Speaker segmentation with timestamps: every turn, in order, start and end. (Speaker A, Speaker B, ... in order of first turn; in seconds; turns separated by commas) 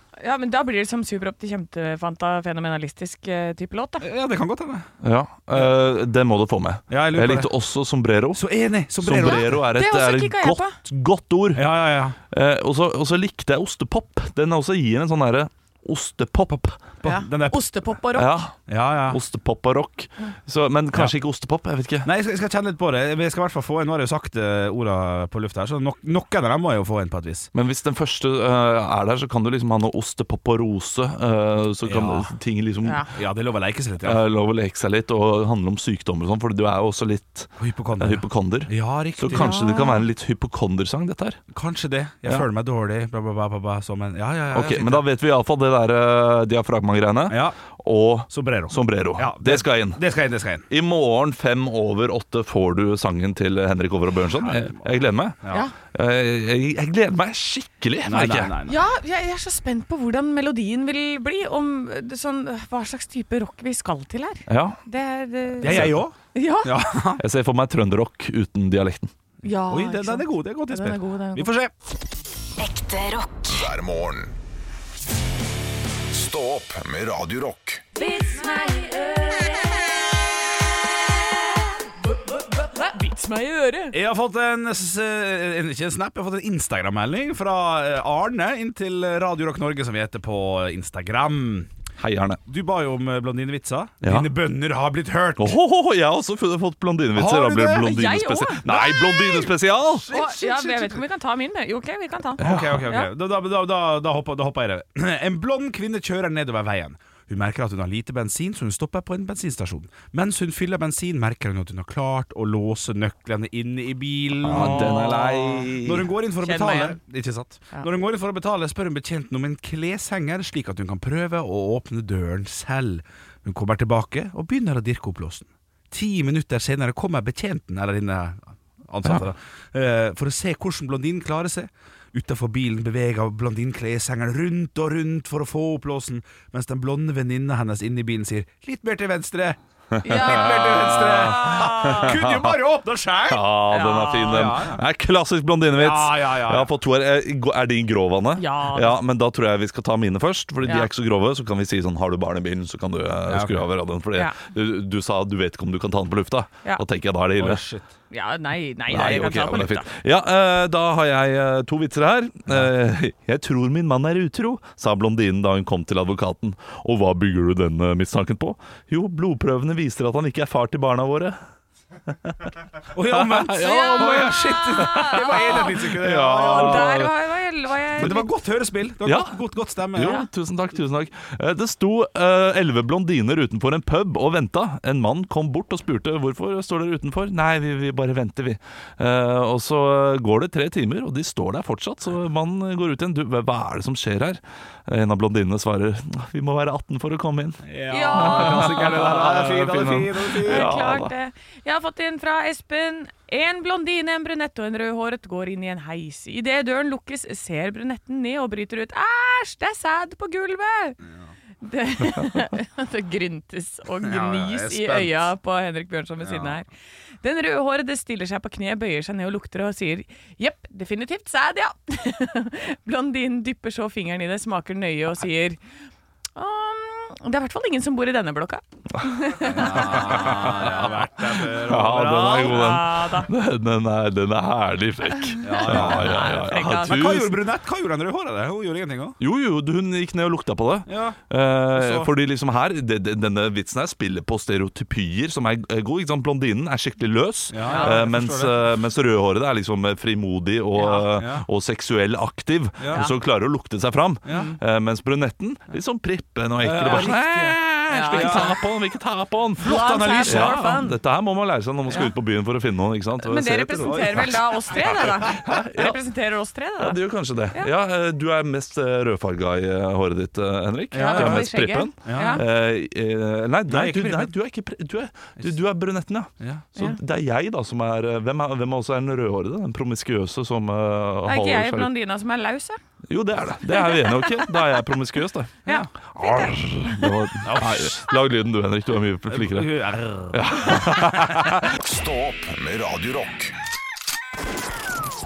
Speaker A: 0.2-4.1, Speaker B: 4.0-4.9, Speaker C: 5.0-8.4, Speaker B: 6.9-7.5, Speaker B: 8.3-9.6, Speaker C: 9.0-11.8, Speaker A: 9.1-10.8, Speaker B: 11.6-12.2, Speaker C: 12.3-16.9, Speaker B: 17.0-17.6, Speaker A: 17.0-18.5, Speaker C: 18.1-22.1, Speaker B: 18.7-19.2, Speaker B: 22.0-27.5, Speaker C: 27.5-33.0, Speaker B: 31.9-32.3, Speaker B: 33.1-34.2, Speaker C: 34.0-41.4, Speaker B: 37.6-39.6, Speaker A: 39.3-40.1, Speaker B: 41.5-45.1, Speaker C: 44.5-50.0, Speaker B: 47.3-47.6, Speaker B: 48.3-50.7, Speaker C: 50.7-58.5, Speaker B: 54.4-54.9, Speaker A: 55.5-55.7, Speaker B: 58.1-58.8, Speaker A: 58.7-66.8, Speaker C: 64.5-64.8, Speaker C: 65.6-66.0, Speaker B: 65.6-67.2, Speaker C: 67.2-69.1, Speaker A: 69.4-71.5, Speaker B: 69.7-71.7, Speaker D: 72.6-74.4, Speaker D: 76.1-77.9, Speaker A: 78.0-80.0, Speaker A: 82.6-84.0, Speaker B: 83.9-91.7, Speaker C: 92.0-92.4, Speaker B: 92.5-95.6, Speaker C: 94.0-94.3, Speaker C: 95.4-100.1, Speaker B: 97.2-98.0, Speaker A: 97.8-99.5, Speaker B: 100.0-101.0, Speaker A: 100.1-103.1, Speaker C: 102.4-102.9, Speaker B: 102.4-143.4, Speaker C: 114.4-116.1, Speaker A: 114.5-115.5, Speaker A: 116.4-117.0, Speaker C: 139.9-142.5, Speaker A: 140.0-142.2, Speaker C: 143.3-157.6, Speaker A: 143.7-144.6, Speaker B: 144.3-144.8, Speaker B: 145.7-146.7, Speaker A: 148.4-149.0, Speaker B: 153.3-153.7, Speaker B: 157.4-157.9, Speaker A: 158.1-159.9, Speaker C: 158.9-171.4, Speaker B: 172.9-177.1, Speaker C: 173.1-177.1, Speaker A: 173.6-178.3, Speaker B: 178.0-180.2, Speaker C: 179.0-201.1, Speaker B: 197.6-200.7, Speaker A: 197.9-198.8, Speaker A: 200.4-211.0, Speaker A: 211.6-216.7, Speaker B: 214.1-215.3, Speaker B: 216.2-216.6, Speaker A: 217.2-225.6, Speaker A: 226.4-230.9, Speaker C: 229.0-237.4, Speaker B: 229.4-232.6, Speaker A: 231.9-233.3, Speaker A: 235.3-237.2, Speaker B: 235.4-239.2, Speaker C: 239.2-266.0, Speaker B: 240.9-241.2, Speaker B: 241.7-242.1, Speaker B: 247.5-248.7, Speaker A: 247.7-248.1, Speaker A: 250.8-251.2, Speaker B: 251.2-251.4, Speaker B: 252.8-253.1, Speaker B: 254.2-254.5, Speaker A: 254.3-254.6, Speaker B: 256.6-258.6, Speaker A: 257.9-258.6, Speaker A: 259.6-261.0, Speaker B: 259.8-260.6, Speaker A: 261.9-262.1, Speaker A: 263.2-267.0, Speaker B: 263.8-264.3, Speaker C: 266.8-281.9, Speaker A: 270.9-272.4, Speaker B: 271.0-272.4, Speaker B: 273.7-274.3, Speaker A: 281.3-282.8, Speaker C: 283.1-285.6, Speaker A: 283.7-284.8, Speaker A: 285.7-287.0, Speaker C: 286.1-291.7, Speaker B: 287.4-288.0, Speaker B: 289.3-291.6, Speaker D: 291.6-293.6